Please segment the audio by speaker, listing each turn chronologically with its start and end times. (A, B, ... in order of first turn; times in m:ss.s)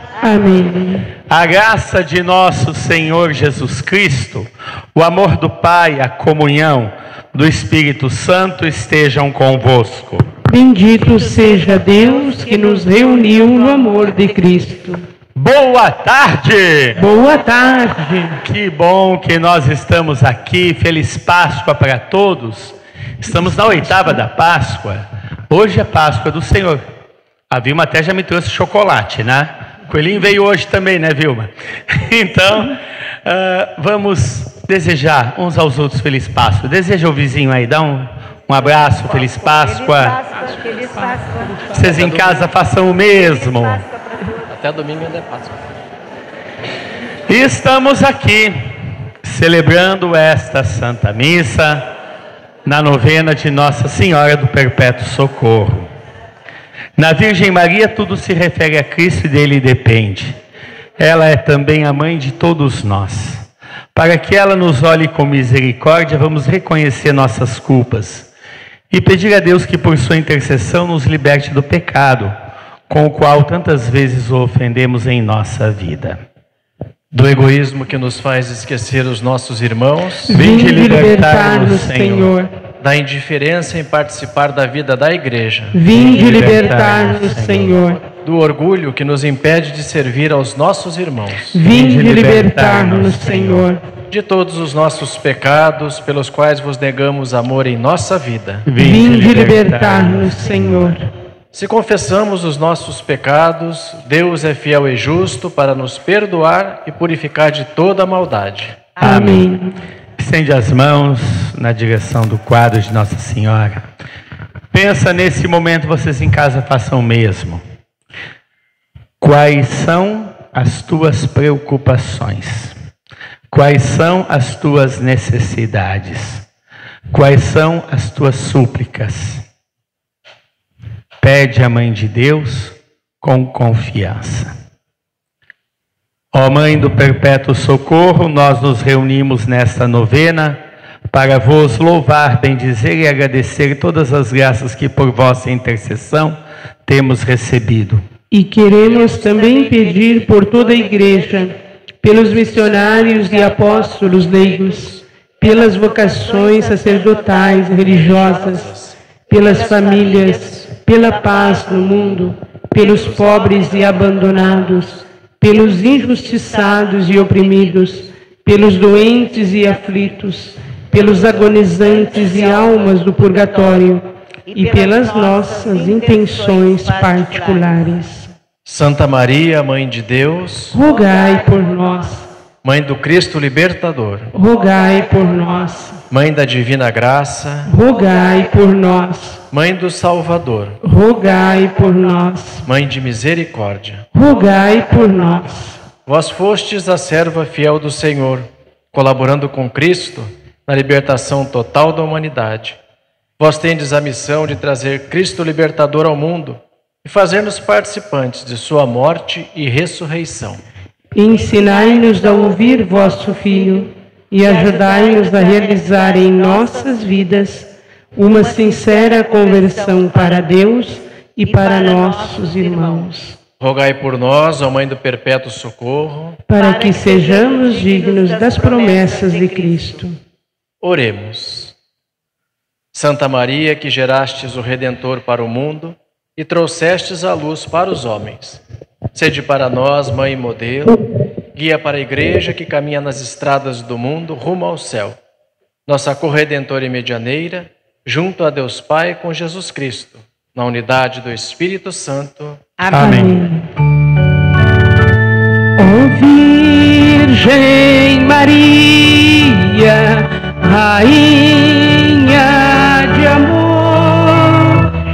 0:00.2-0:01.1 A
0:01.3-0:10.3 B
0:10.5-0:15.0 A
0:11.0-0:14.5 C
0:15.3-0:17.0 B
0:17.0-0:18.4 A
0:18.4-0:26.8 B
0:23.5-0:24.1 A
0:27.5-0:40.2 B
0:38.6-0:42.4 C
0:41.0-0:41.5 A
0:41.7-0:43.8 B
0:41.9-0:42.4 D
0:43.0-0:44.5 C
0:44.5-0:45.7 D
0:47.3-0:48.6 B
0:49.2-0:51.9 B
0:52.6-0:55.9 B
0:57.0-1:00.4 B
1:01.0-1:08.3 B
1:08.9-1:12.3 B
1:12.9-1:16.2 B
1:17.1-1:20.4 D
1:20.3-1:22.5 A
1:20.3-1:22.3 B
1:20.9-1:21.3 C
1:22.8-1:25.9 D
1:25.7-1:28.0 A
1:25.9-1:27.5 C
1:25.9-1:27.8 B
1:28.0-1:31.6 D
1:31.5-1:33.8 A
1:31.6-1:33.6 B
1:34.1-1:38.7 D
1:38.6-1:41.0 B
1:38.8-1:41.1 A
1:41.5-1:48.9 D
1:49.0-1:49.8 A
1:49.0-1:49.5 B
1:50.2-1:53.9 B
1:54.7-1:57.6 B
1:59.2-2:02.7 B
2:03.5-2:06.4 B
2:07.1-2:09.4 B
2:11.2-2:14.5 B
2:16.3-2:28.0 B
2:28.3-2:38.7 A
2:28.7-2:31.6 C
2:32.2-2:38.7 C
2:37.8-2:38.9 D
2:39.3-2:42.2 C
2:39.3-2:58.3 A
2:42.8-2:47.9 C
2:48.6-2:50.2 C
2:50.9-2:53.9 C
2:54.5-2:57.9 C
2:58.6-3:00.8 D
3:00.7-3:02.3 A
3:00.8-3:02.0 C
3:02.6-3:04.3 D
3:04.3-3:06.0 A
3:04.7-3:05.1 C
3:06.1-3:07.7 D
3:07.6-3:09.4 A
3:08.1-3:08.4 C
3:09.5-3:10.8 D
3:10.8-3:12.6 A
3:12.6-3:14.0 D
3:14.1-3:15.8 A
3:16.0-3:22.8 D
3:23.4-3:30.6 D
3:31.1-3:43.4 A
3:31.3-3:33.9 C
3:34.4-3:37.1 C
3:38.2-3:40.5 C
3:41.4-3:43.1 C
3:43.6-3:46.4 D
3:46.5-3:50.2 A
3:46.6-3:50.0 C
3:50.8-3:51.7 D
3:52.9-3:58.6 D
3:59.1-4:01.0 D
4:01.5-4:05.2 D
4:05.9-4:12.6 D
4:12.8-4:13.3 C
4:12.9-4:13.4 B
4:12.9-4:13.6 A
4:15.8-4:24.8 A